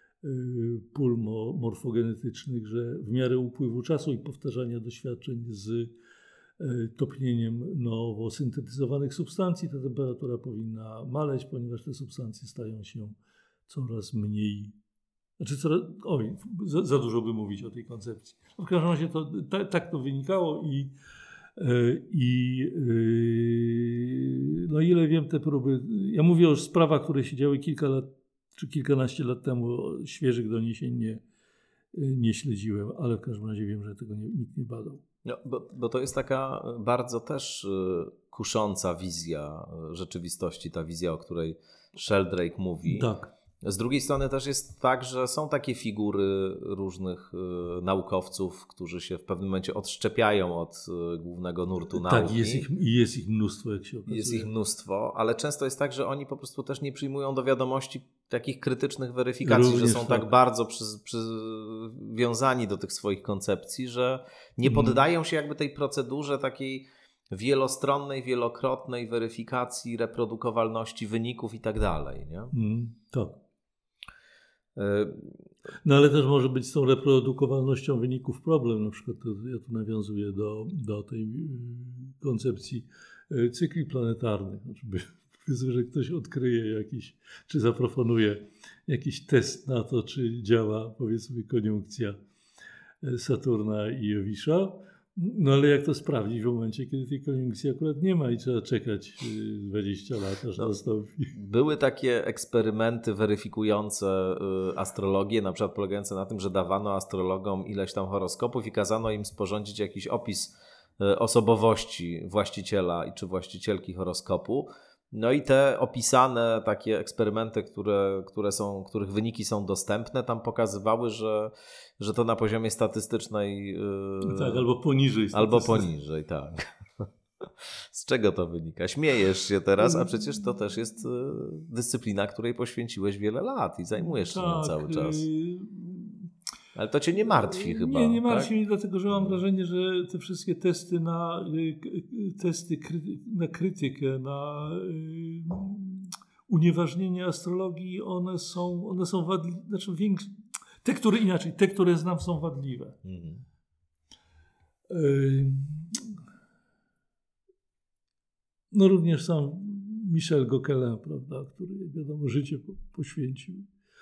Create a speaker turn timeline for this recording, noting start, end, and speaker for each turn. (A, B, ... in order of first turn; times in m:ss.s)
0:00.2-0:05.9 A
0:06.6-0:13.2 A
0:13.7-0:14.8 A
0:15.4-0:20.9 A
0:21.6-0:31.2 A
0:31.9-0:35.0 A
0:35.2-0:43.1 B
0:42.8-0:43.3 A
0:43.6-0:52.7 B
0:51.9-0:54.5 A
0:54.1-1:12.5 B
0:59.4-1:00.3 A
1:04.6-1:05.0 A
1:12.5-1:13.4 A
1:14.8-1:15.5 B
1:15.8-1:32.2 A
1:33.0-1:41.4 A
1:41.3-2:04.6 B
2:04.2-2:05.9 A
2:05.3-2:15.2 B
2:14.0-2:16.3 A
2:16.8-2:18.5 B
2:17.3-2:33.0 A
2:19.1-2:19.4 B
2:33.0-2:33.4 B
2:34.9-2:36.1 A
2:38.7-2:43.7 A